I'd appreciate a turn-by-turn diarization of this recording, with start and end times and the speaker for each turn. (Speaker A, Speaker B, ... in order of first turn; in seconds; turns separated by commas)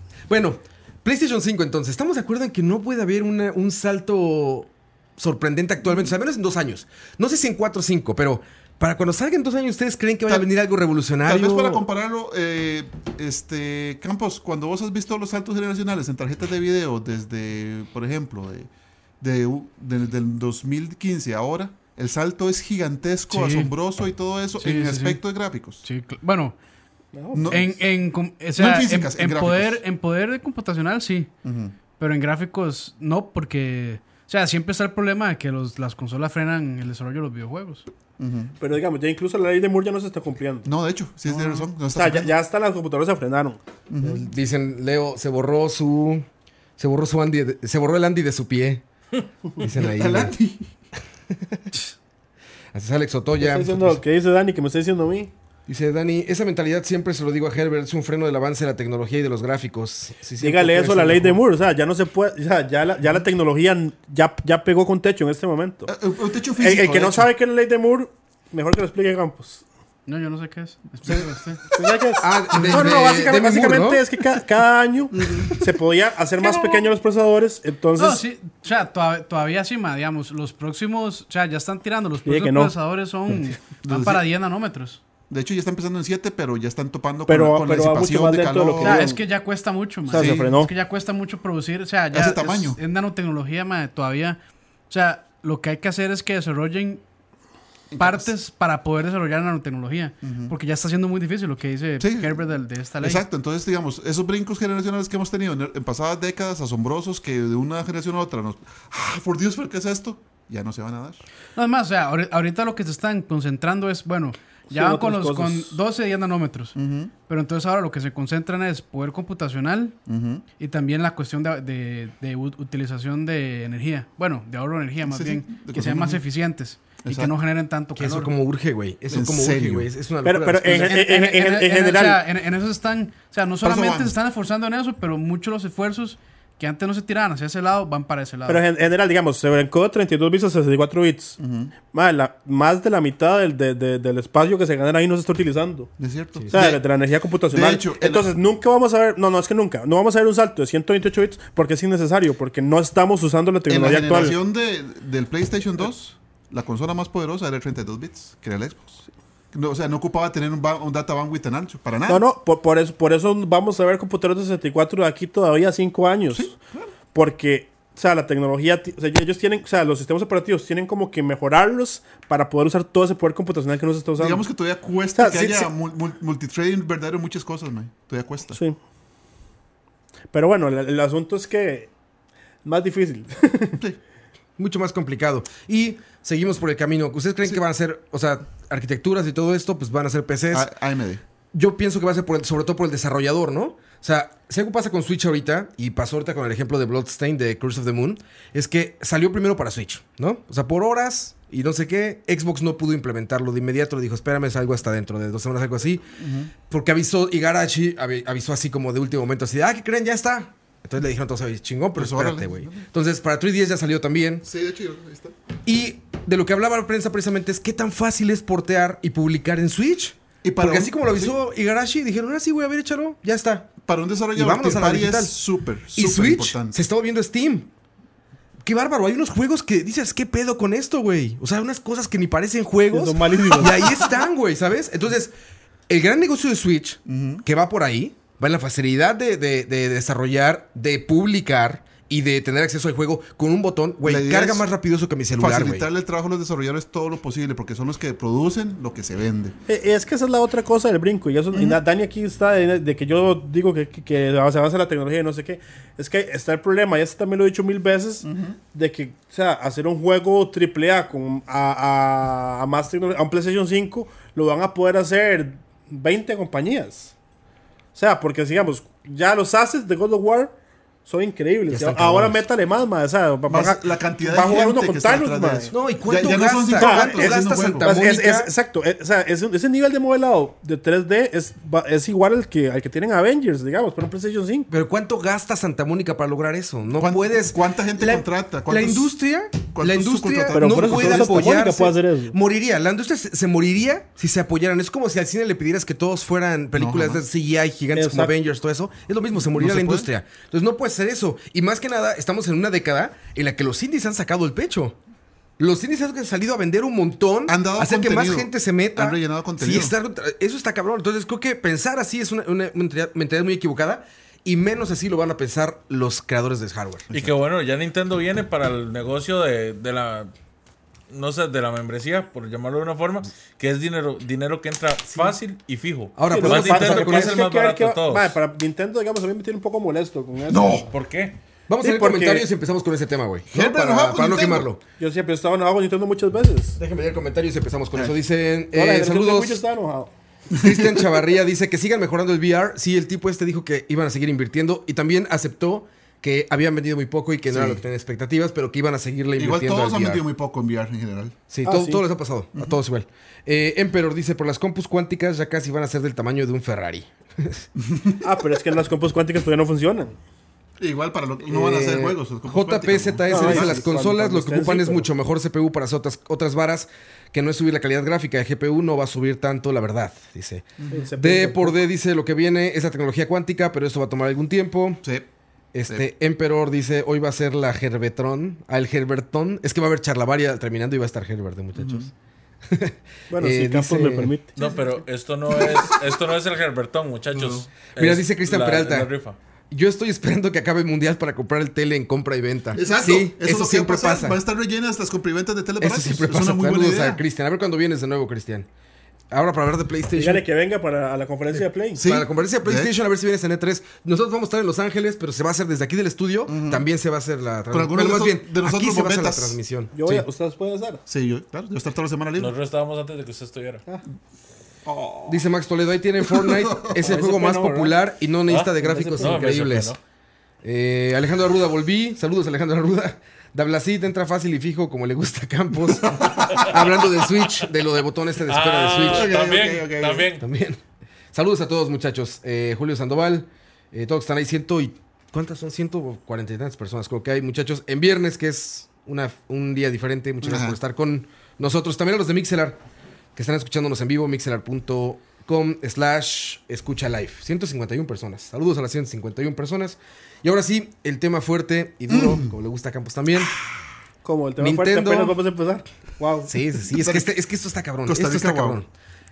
Speaker A: 0.3-11.8, Speaker B: 11.2-25.8, Speaker C: 23.3-23.7, Speaker C: 24.6-25.2, Speaker C: 25.8-26.6, Speaker D: 27.1-27.8, Speaker B: 27.3-27.7, Speaker C: 27.5-31.3, Speaker B: 28.6-29.8, Speaker B: 31.4-31.7, Speaker C: 32.0-37.9, Speaker B: 38.2-38.5, Speaker D: 38.6-40.7, Speaker B: 40.6-42.3, Speaker D: 41.9-44.2, Speaker B: 43.9-44.2, Speaker A: 44.1-46.3, Speaker A: 46.8-48.8, Speaker A: 49.6-50.4, Speaker B: 49.6-50.7, Speaker A: 51.3-51.7, Speaker A: 52.7-54.0, Speaker D: 53.4-55.3, Speaker A: 55.7-61.4, Speaker D: 60.4-65.9, Speaker B: 65.9-67.3, Speaker D: 66.6-69.6, Speaker C: 70.1-71.7, Speaker D: 71.7-78.2, Speaker A: 72.2-74.0, Speaker C: 72.6-73.0, Speaker B: 75.2-75.5, Speaker C: 76.4-76.9, Speaker C: 78.0-85.0, Speaker D: 82.2-82.7, Speaker B: 83.8-84.2, Speaker B: 85.3-89.1, Speaker D: 87.3-89.2, Speaker C: 88.8-97.0, Speaker D: 90.1-90.7, Speaker B: 90.1-90.5, Speaker B: 92.1-92.8, Speaker B: 97.9-98.3, Speaker C: 98.0-103.2, Speaker B: 100.2-100.5, Speaker B: 102.0-102.4, Speaker B: 103.0-111.2, Speaker C: 111.6-120.0, Speaker D: 114.7-115.8, Speaker B: 116.8-117.1, Speaker B: 120.1-120.5, Speaker C: 120.6-128.3, Speaker B: 125.1-126.2, Speaker B: 127.0-127.3, Speaker A: 128.0-131.0, Speaker B: 129.1-129.9, Speaker D: 130.2-132.2, Speaker C: 130.7-138.6, Speaker B: 133.6-134.2, Speaker D: 138.5-141.4, Speaker B: 141.4-141.7, Speaker D: 141.9-145.9, Speaker B: 146.0-146.8, Speaker D: 146.5-154.4, Speaker B: 147.5-148.3, Speaker B: 153.7-162.2, Speaker D: 162.1-166.5, Speaker B: 166.3-166.9, Speaker D: 167.1-174.4, Speaker B: 174.2-178.6, Speaker D: 175.2-175.7, Speaker D: 178.5-178.8, Speaker D: 180.3-181.9, Speaker D: 182.7-183.8, Speaker A: 184.6-190.7, Speaker B: 190.5-191.2, Speaker A: 191.5-206.1, Speaker B: 206.2-206.5, Speaker A: 206.7-214.5, Speaker B: 211.9-212.8, Speaker B: 214.4-215.3, Speaker A: 215.7-223.7, Speaker B: 220.4-221.4, Speaker B: 223.8-226.8, Speaker A: 224.3-225.3, Speaker A: 225.9-227.7, Speaker A: 228.6-235.3, Speaker D: 232.9-233.9, Speaker A: 235.9-245.9, Speaker B: 237.1-237.4, Speaker B: 244.0-244.7, Speaker B: 245.4-249.6, Speaker D: 249.7-267.1, Speaker B: 251.5-251.8, Speaker B: 258.2-258.6, Speaker D: 267.9-270.5, Speaker D: 271.1-275.7, Speaker A: 271.7-272.4, Speaker B: 273.5-278.1, Speaker A: 275.7-278.5, Speaker D: 276.8-284.7, Speaker A: 284.7-305.0, Speaker B: 287.0-289.1, Speaker B: 289.7-291.5, Speaker D: 290.5-292.4, Speaker B: 296.8-297.2, Speaker D: 297.9-298.3, Speaker B: 299.5-300.1, Speaker A: 305.6-317.1, Speaker B: 307.5-309.9, Speaker E: 317.1-320.3, Speaker E: 321.1-328.4, Speaker A: 326.2-327.4, Speaker D: 326.2-330.9, Speaker B: 330.5-330.9, Speaker E: 330.9-331.4, Speaker A: 331.7-334.8, Speaker D: 331.8-332.5, Speaker B: 333.5-334.7, Speaker D: 335.0-336.8, Speaker A: 336.8-339.6, Speaker D: 338.7-340.1, Speaker B: 340.5-341.2, Speaker A: 340.6-350.2, Speaker B: 347.5-347.8, Speaker B: 349.4-351.4, Speaker A: 351.5-357.7, Speaker D: 351.7-352.0, Speaker B: 357.8-358.2, Speaker D: 358.2-360.2, Speaker B: 360.8-363.9, Speaker A: 361.5-375.0, Speaker D: 363.3-365.1, Speaker B: 370.8-371.1, Speaker D: 370.9-371.9, Speaker B: 375.0-375.3, Speaker A: 375.7-382.1, Speaker B: 381.8-382.1, Speaker A: 382.7-384.3, Speaker D: 383.3-384.6, Speaker E: 384.6-389.4, Speaker B: 384.6-384.9, Speaker B: 385.5-386.0, Speaker B: 387.3-387.7, Speaker A: 388.0-389.1, Speaker A: 389.7-394.4, Speaker B: 392.8-397.2, Speaker A: 395.8-398.7, Speaker A: 399.3-400.4, Speaker D: 400.2-402.1, Speaker B: 401.9-402.9, Speaker A: 402.0-410.3, Speaker B: 406.5-406.9, Speaker B: 407.7-409.6, Speaker D: 409.9-411.0, Speaker B: 411.1-412.5, Speaker E: 412.4-413.8, Speaker B: 414.9-415.4, Speaker A: 415.3-420.0, Speaker B: 416.2-417.1, Speaker D: 417.0-418.0, Speaker E: 418.5-420.0, Speaker D: 418.8-419.5, Speaker A: 420.6-429.3, Speaker B: 425.9-426.8, Speaker E: 428.5-430.4, Speaker B: 429.0-430.3, Speaker A: 430.4-430.8, Speaker A: 431.3-442.8, Speaker B: 440.4-440.8, Speaker A: 443.4-453.6, Speaker B: 452.1-452.5, Speaker D: 454.2-456.5, Speaker A: 454.6-455.4, Speaker A: 456.5-458.9, Speaker B: 456.9-457.4, Speaker B: 458.1-458.8